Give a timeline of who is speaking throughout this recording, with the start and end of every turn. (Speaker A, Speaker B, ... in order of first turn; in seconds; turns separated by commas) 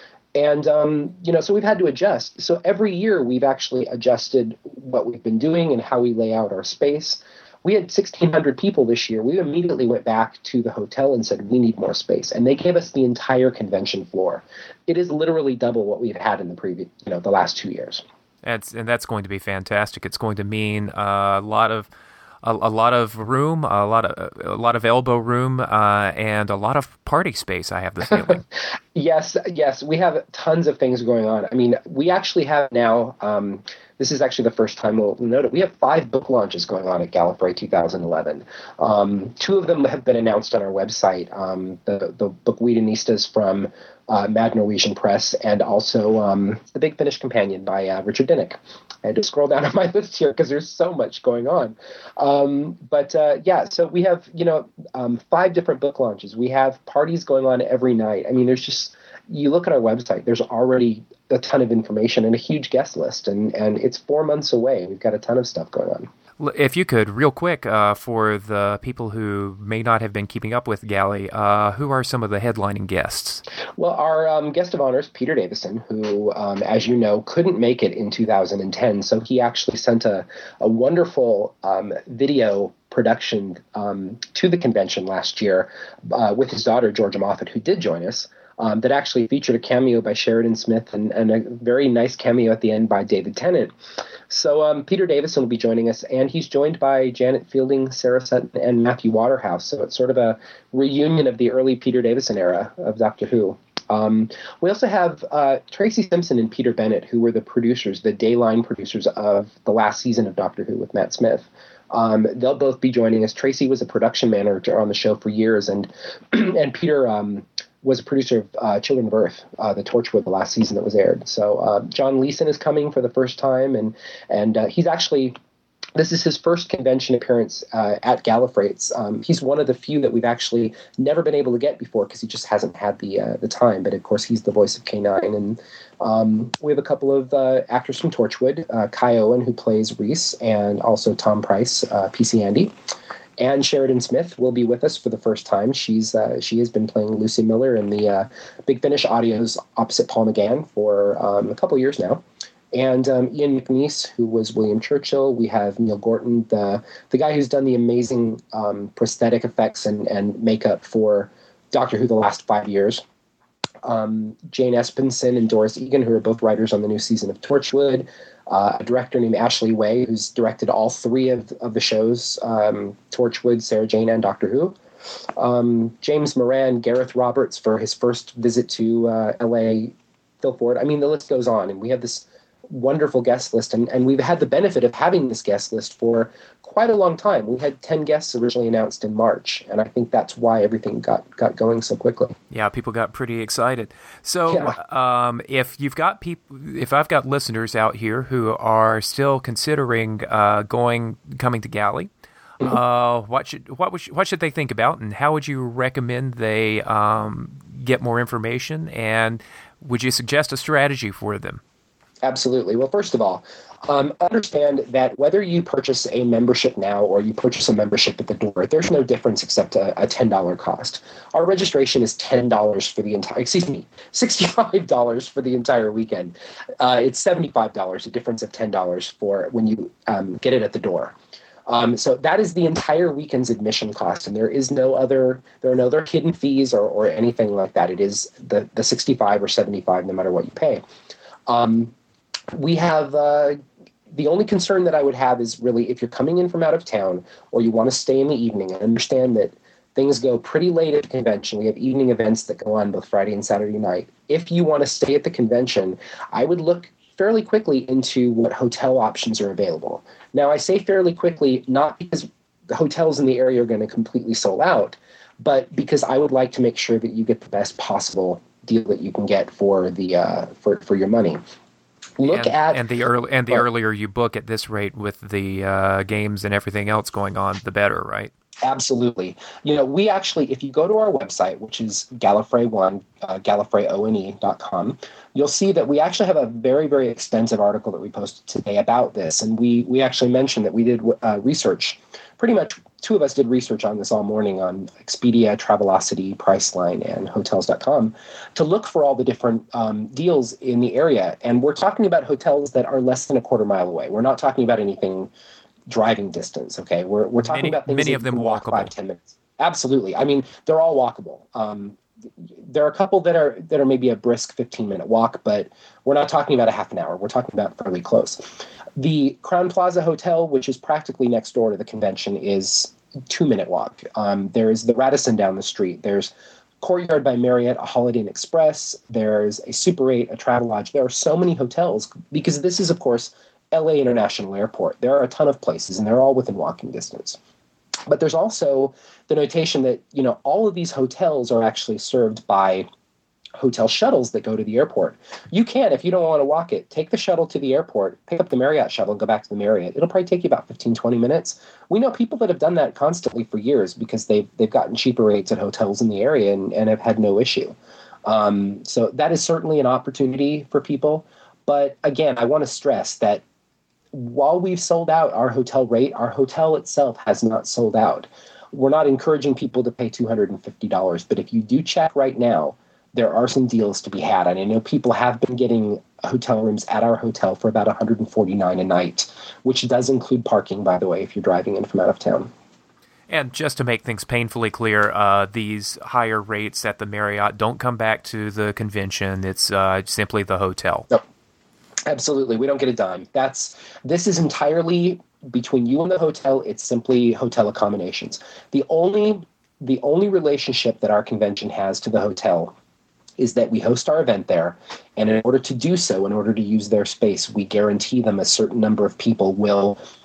Speaker A: 0.4-18.0, Speaker B: 18.4-21.9, Speaker B: 22.4-28.4, Speaker A: 28.9-66.1, Speaker B: 66.4-73.4, Speaker A: 73.8-93.7, Speaker A: 94.3-125.3, Speaker A: 126.0-142.7, Speaker A: 143.4-163.0, Speaker A: 163.8-174.8, Speaker A: 175.4-192.3, Speaker B: 192.5-202.1, Speaker A: 194.5-194.8, Speaker B: 202.6-211.6, Speaker A: 212.2-231.2, Speaker A: 231.7-240.8, Speaker A: 241.5-241.9, Speaker A: 242.6-243.6, Speaker A: 244.1-271.4, Speaker A: 272.2-272.8, Speaker B: 272.3-278.3, Speaker A: 278.6-305.3, Speaker A: 305.9-318.4, Speaker B: 307.4-308.9, Speaker A: 319.0-337.4, Speaker A: 338.1-342.9, Speaker A: 343.6-363.4, Speaker A: 364.1-382.5, Speaker B: 383.3-391.1, Speaker A: 392.1-402.8, Speaker A: 403.4-410.0